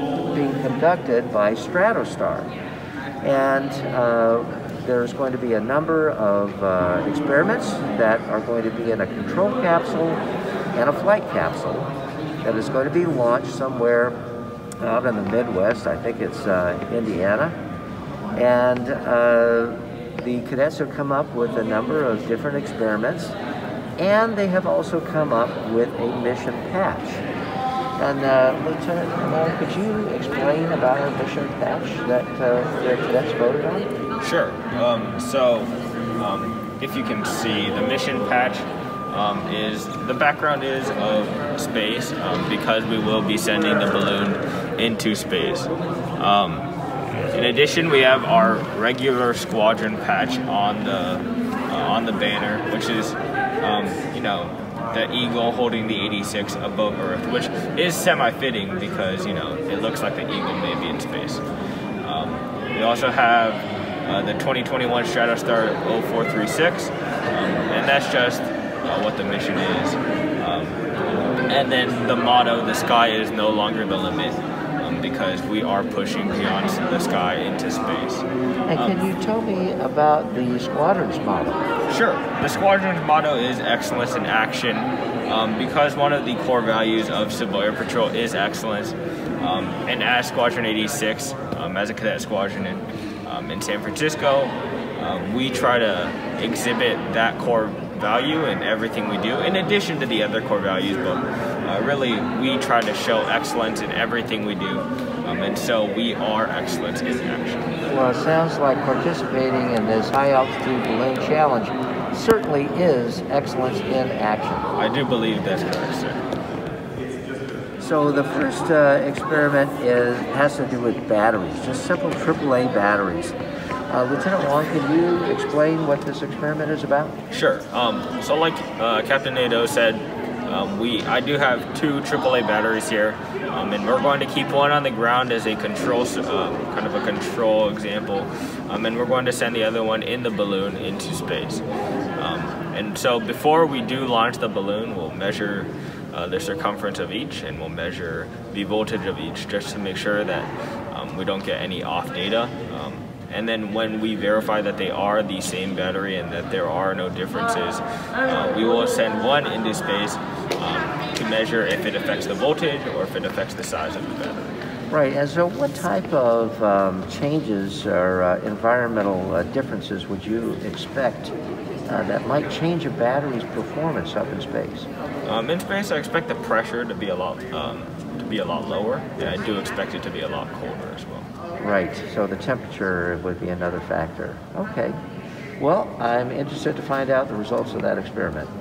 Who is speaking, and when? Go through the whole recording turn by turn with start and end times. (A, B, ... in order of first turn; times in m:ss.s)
0:00.3-0:02.5 A
0:03.2-0:10.2 A
0:10.7-0:14.2 A
0:14.8-0:17.6 A
0:18.3-0:23.4 A
0:24.0-0:27.2 A
0:28.0-0:33.9 A
0:34.2-0:46.7 B
0:47.3-1:01.4 B
1:02.0-1:19.0 B
1:18.7-1:21.6 A
1:21.9-1:47.8 B
1:47.8-1:54.7 A
1:54.8-1:56.2 B
1:57.8-2:03.4 A
2:03.9-2:07.2 A
2:07.3-2:21.6 B
2:22.2-2:44.6 B
2:44.9-2:51.3 A
2:51.8-2:54.9 A
2:55.2-3:01.3 B
3:01.6-3:05.0 A
3:05.6-3:08.5 A